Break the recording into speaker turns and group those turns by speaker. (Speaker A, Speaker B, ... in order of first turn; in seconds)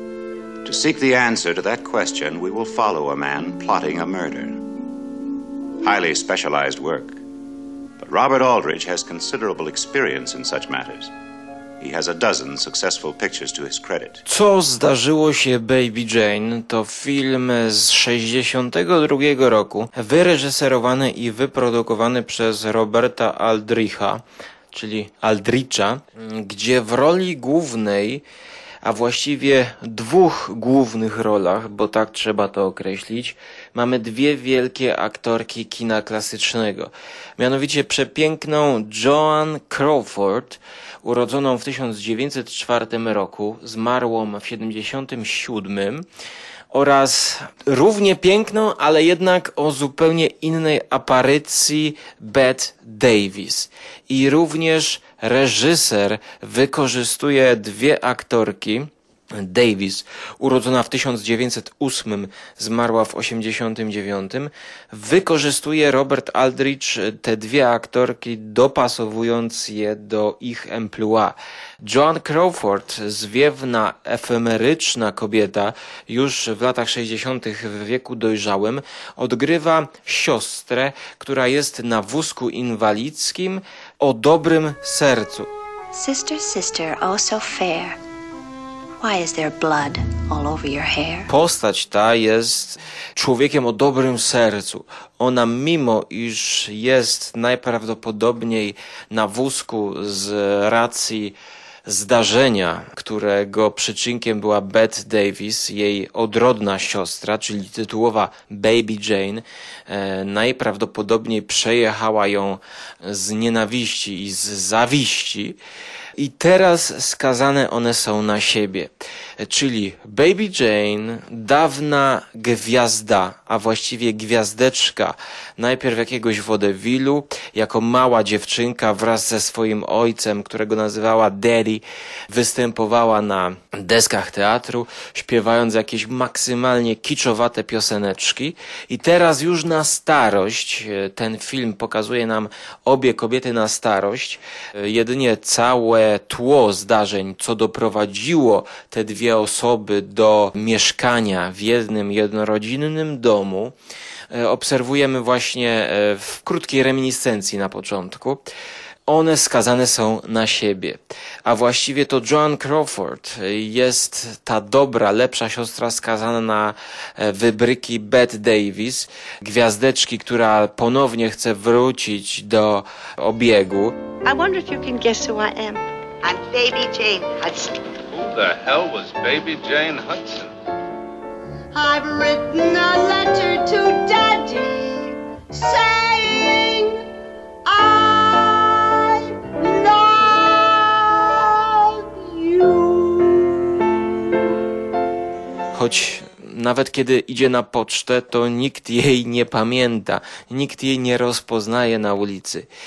Speaker A: 0.7-4.6, 5.8-7.2, 8.0-11.1, 11.8-14.2
Speaker B: 14.3-28.2, 28.8-46.0, 46.7-85.5, 91.3-115.6, 116.2-153.7, 154.3-158.4, 159.1-173.9, 195.7-202.7
Speaker C: 85.9-88.0, 89.0-91.3
Speaker D: 174.3-177.8, 181.7-186.9, 187.7-193.7
Speaker E: 178.1-180.6